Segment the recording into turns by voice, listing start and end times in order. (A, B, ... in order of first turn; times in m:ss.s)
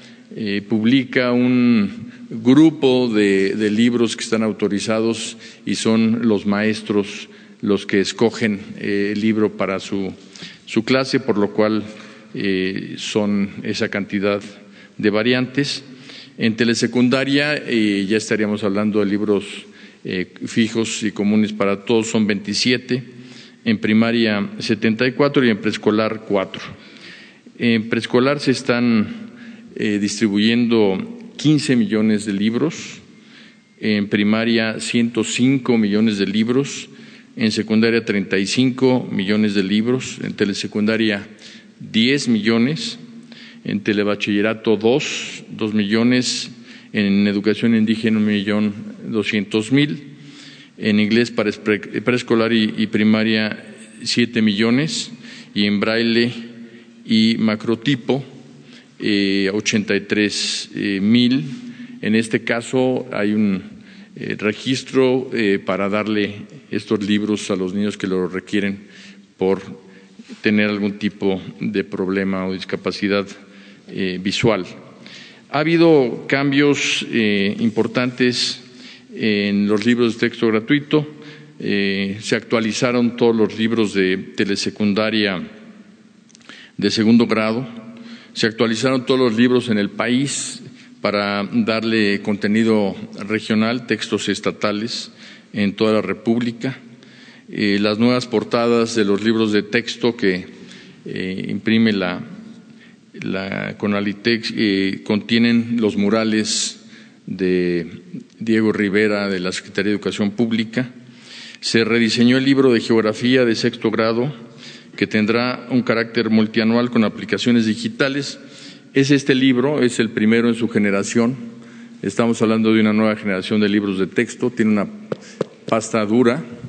0:00.3-0:10.2 A
0:10.7-0:15.8 A
0:16.4-0:23.1 A
0:23.6-0:26.7 A
0:27.6-0:33.0 A
0:33.8-0:41.3 A
0:41.8-0:43.0 A
0:43.6-0:50.1 A
0:50.8-0:56.4 A
0:57.0-0:58.2 A
0:59.0-1:08.8 A
1:09.4-1:09.8 A
1:10.4-1:13.3 A
1:13.9-1:14.7 A
1:15.5-1:25.5 A
1:26.8-1:27.7 A
1:28.4-1:36.8 A
1:37.5-1:40.5 A
1:41.0-1:42.3 A
1:43.2-1:50.9 A
1:51.6-1:54.4 A
1:55.0-1:58.4 A
1:58.9-2:01.5 A
2:02.0-2:05.0 A
2:05.7-2:06.5 A